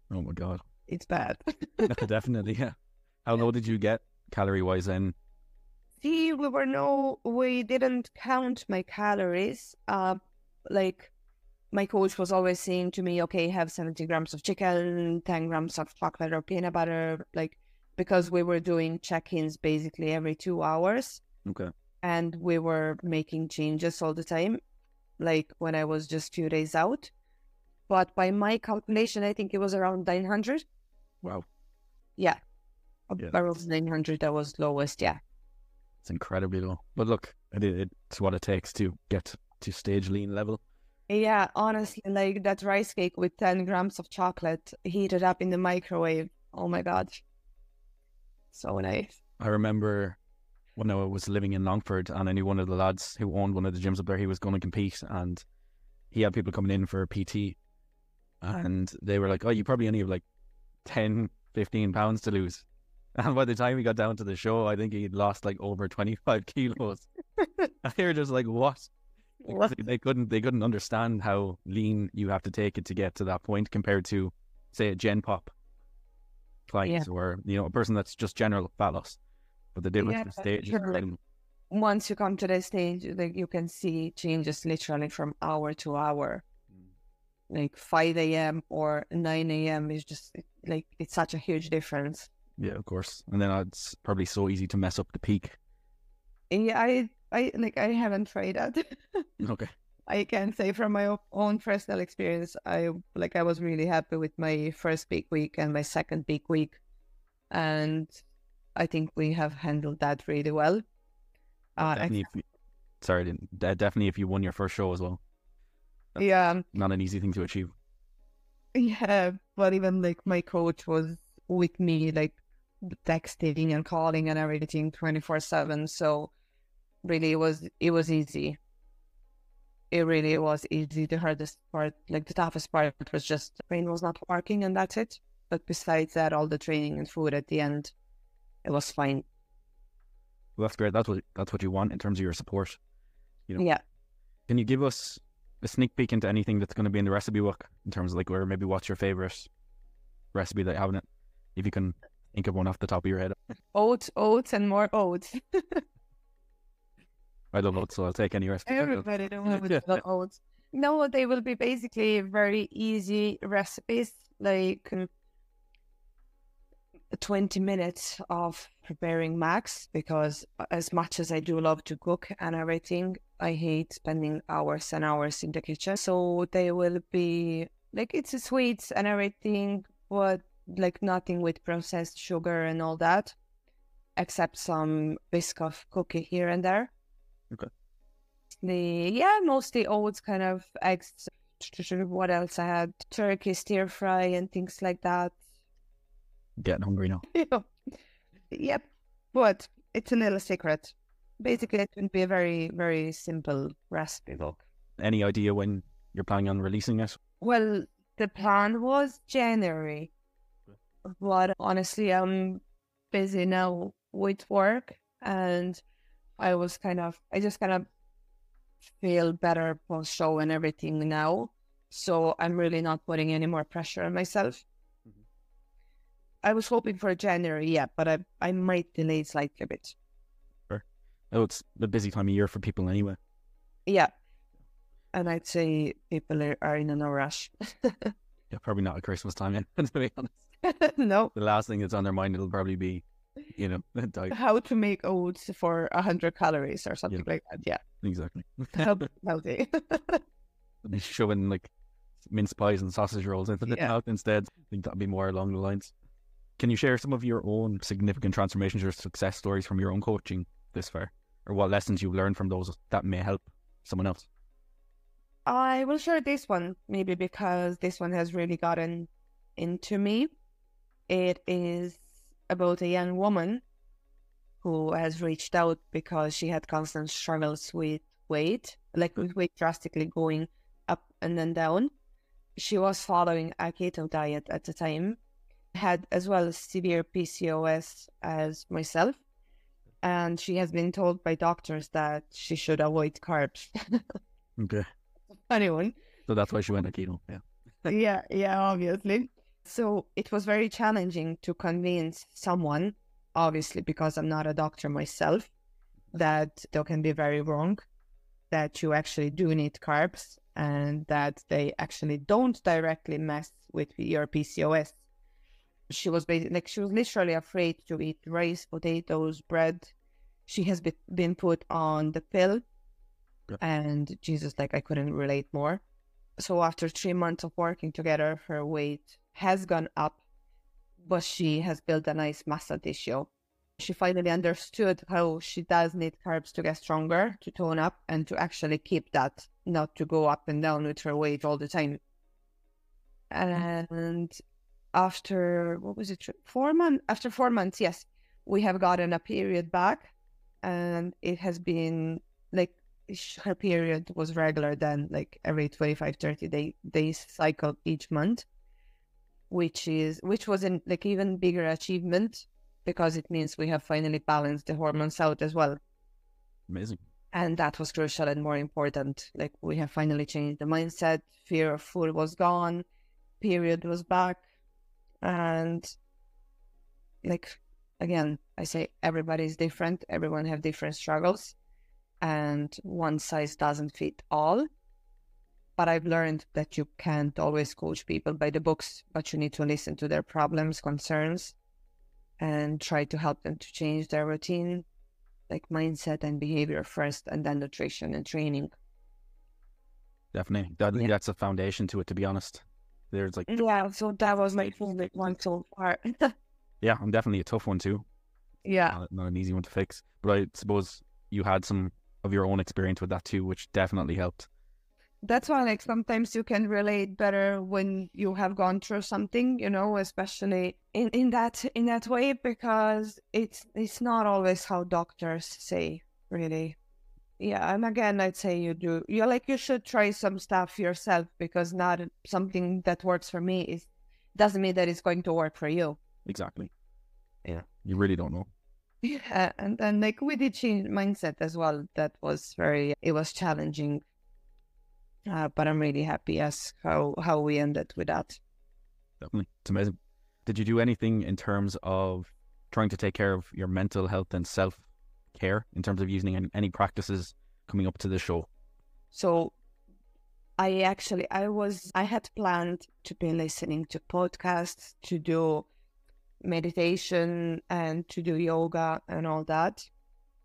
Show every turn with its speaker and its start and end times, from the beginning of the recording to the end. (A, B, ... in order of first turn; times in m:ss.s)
0:00.1-0:00.6 A
0:00.9-0:02.0 B
0:01.9-0:05.2 A
0:06.0-0:11.1 B
0:11.7-0:21.2 B
0:21.4-0:21.7 A
0:22.0-0:24.6 B
0:25.2-0:27.1 B
0:27.9-0:30.6 B
0:33.1-0:35.2 B
0:36.0-0:40.6 A
0:41.1-0:47.2 B
0:48.5-0:49.2 B
0:49.4-0:50.2 A
0:50.8-0:55.4 A
0:56.1-0:57.6 A
0:58.4-1:00.2 A
1:00.8-1:07.1 A
1:07.8-1:08.9 A
1:09.4-1:09.8 B
1:09.5-1:15.5 A
1:16.7-1:19.2 A
1:19.7-1:21.2 A
1:20.0-1:21.0 B
1:21.7-1:26.4 B
1:27.5-1:32.3 B
1:32.6-1:35.6 A
1:36.5-1:39.3 B
1:39.4-1:39.7 A
1:40.1-1:46.8 B
1:47.5-1:48.1 B
1:48.8-1:50.8 B
1:51.8-1:52.2 B
1:51.8-1:52.4 A
1:53.0-1:55.2 A
1:56.2-1:56.6 B
1:56.7-1:57.7 A
1:58.8-2:06.3 B
2:07.0-2:08.6 B
2:09.9-2:17.9 B
2:18.6-2:19.2 B
2:20.6-2:22.8 A
2:23.6-2:23.8 B
2:24.5-2:29.5 A
2:30.3-2:33.4 A
2:33.7-2:35.8 B
2:37.5-2:40.0 A
2:38.7-2:45.1 B
2:47.1-3:03.4 B
3:04.2-3:06.9 B
3:08.6-3:15.4 B
3:16.6-3:17.2 A
3:17.3-3:17.7 B
3:18.5-3:24.6 B
3:25.0-3:27.2 A
3:27.4-3:30.1 B
3:31.1-3:35.8 B
3:36.4-3:37.9 B
3:39.0-3:44.6 B
3:46.4-3:50.0 B
3:50.7-3:53.2 A
3:55.1-3:58.1 B
3:58.5-4:00.4 A
4:00.6-4:01.3 B
4:01.3-4:04.4 A
4:04.3-4:07.8 B
4:08.0-4:08.9 A
4:08.7-4:10.2 B
4:10.8-4:11.7 A
4:12.2-4:15.9 A
4:13.7-4:13.9 B
4:16.6-4:24.3 A
4:25.5-4:30.3 B
4:31.1-4:33.6 B
4:34.6-4:41.9 B
4:42.6-4:45.2 B
4:45.7-4:49.2 B
4:50.0-4:54.0 B
4:54.6-4:54.9 A
4:55.5-4:56.0 B
4:56.3-4:57.4 A
4:57.9-5:05.5 B
5:06.1-5:07.8 B
5:08.5-5:15.0 B
5:15.9-5:19.9 B
5:20.5-5:22.6 B
5:23.6-5:25.8 B
5:26.4-5:30.2 B
5:31.0-5:42.0 B
5:43.3-5:44.4 B
5:44.9-5:58.4 B
5:59.5-6:05.8 B
6:06.7-6:07.0 A
6:07.3-6:12.8 B
6:13.4-6:14.4 B
6:15.2-6:16.0 B
6:17.2-6:21.6 B
6:22.2-6:24.7 B
6:25.8-6:31.6 B
6:32.4-6:34.9 B
6:35.5-6:38.8 B
6:40.3-6:43.5 A
6:43.5-6:46.3 B
6:46.8-6:48.1 A
6:48.6-6:49.0 B
6:48.9-6:54.5 A
6:55.2-7:06.8 B
7:07.4-7:16.0 B
7:16.3-7:16.7 A
7:17.6-7:18.5 A
7:19.0-7:24.0 B
7:25.3-7:28.4 B
7:29.2-7:38.5 A
7:39.1-7:39.6 B
7:40.6-7:45.7 B
7:46.4-7:49.9 B